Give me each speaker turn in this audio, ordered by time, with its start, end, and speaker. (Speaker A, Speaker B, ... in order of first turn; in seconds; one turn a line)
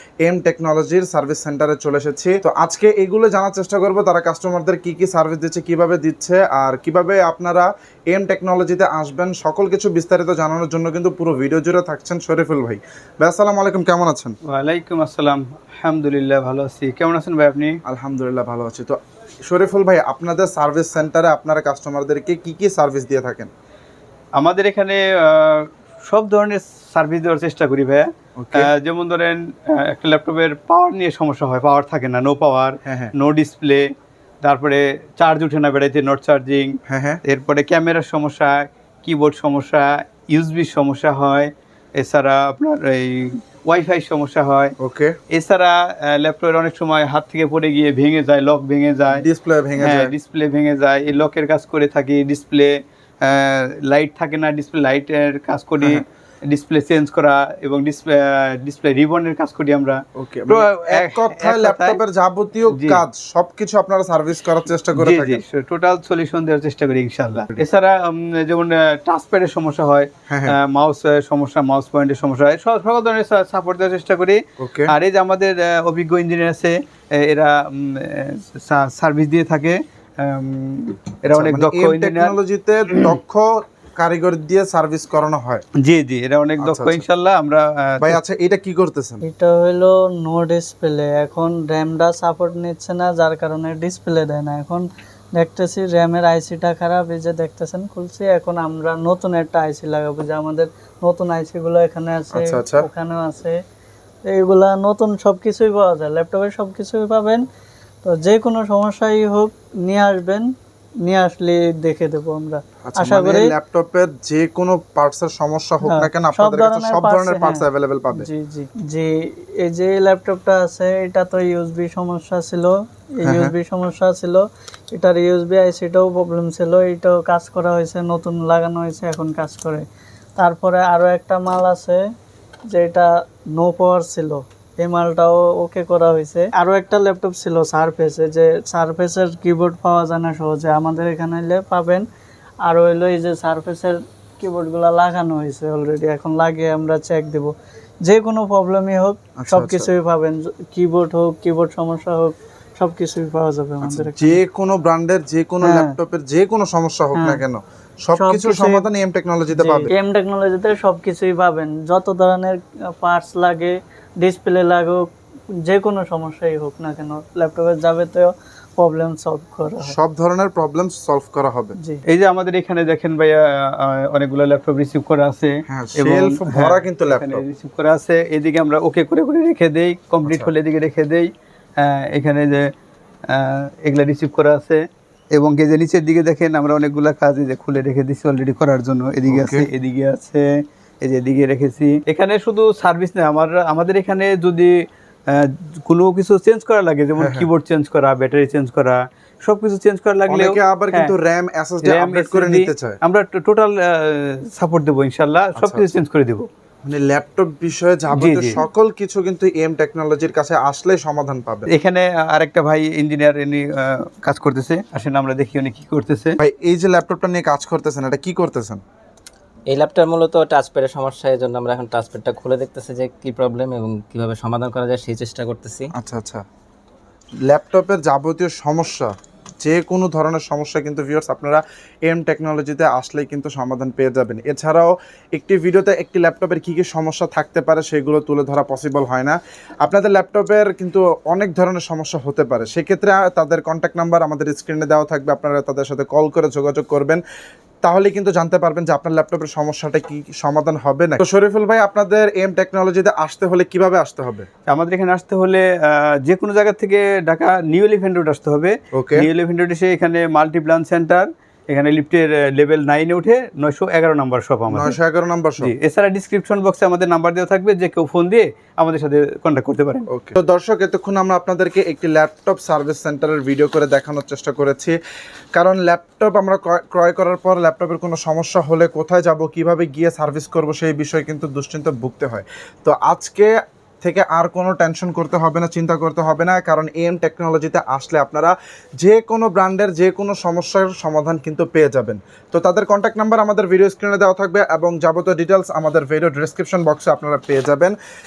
Speaker A: 0.2-14.4
Speaker B: 14.5-17.8
Speaker A: 17.8-23.5
Speaker B: 24.4-33.9
Speaker A: 28.4-28.7
Speaker A: 32.8-33.1
Speaker B: 34.4-44.7
Speaker A: 36.9-37.2
Speaker A: 44.8-45.2
Speaker B: 45.3-49.2
Speaker A: 49.1-50.1
Speaker B: 49.8-62.0
Speaker A: 60.1-65.4
Speaker B: 62.7-63.0
Speaker B: 65.0-82.3
Speaker A: 70.3-70.6
Speaker A: 74.6-74.9
Speaker A: 81.3-85.6
Speaker B: 85.8-88.2
Speaker A: 86.6-87.0
Speaker A: 88.0-89.2
Speaker C: 89.3-103.5
Speaker A: 102.3-102.8
Speaker C: 104.2-107.4
Speaker C: 108.0-110.5
Speaker C: 111.0-113.5
Speaker A: 112.8-118.3
Speaker C: 115.8-117.6
Speaker C: 118.1-124.4
Speaker A: 123.2-123.5
Speaker C: 124.9-129.8
Speaker C: 130.4-132.0
Speaker C: 132.7-142.0
Speaker C: 142.7-147.5
Speaker C: 148.1-154.4
Speaker A: 149.4-149.9
Speaker A: 153.8-159.9
Speaker C: 155.6-155.9
Speaker C: 158.2-158.8
Speaker C: 159.5-165.0
Speaker C: 165.7-169.9
Speaker A: 169.8-171.7
Speaker B: 172.1-182.7
Speaker A: 175.7-177.4
Speaker A: 180.2-180.5
Speaker B: 183.3-184.8
Speaker B: 185.3-194.7
Speaker A: 189.3-189.7
Speaker B: 195.3-201.1
Speaker A: 197.2-197.5
Speaker A: 200.3-203.0
Speaker B: 201.8-206.5
Speaker A: 205.6-205.9
Speaker A: 206.8-211.7
Speaker B: 208.1-208.6
Speaker B: 211.7-216.3
Speaker A: 216.4-218.8
Speaker D: 219.7-225.9
Speaker A: 225.9-226.4
Speaker A: 227.4-247.2
Speaker A: 247.8-254.5
Speaker B: 254.7-264.9
Speaker A: 258.9-259.3
Speaker A: 264.7-265.7
Speaker B: 265.6-270.1
Speaker A: 270.1-275.0
Speaker A: 275.5-297.9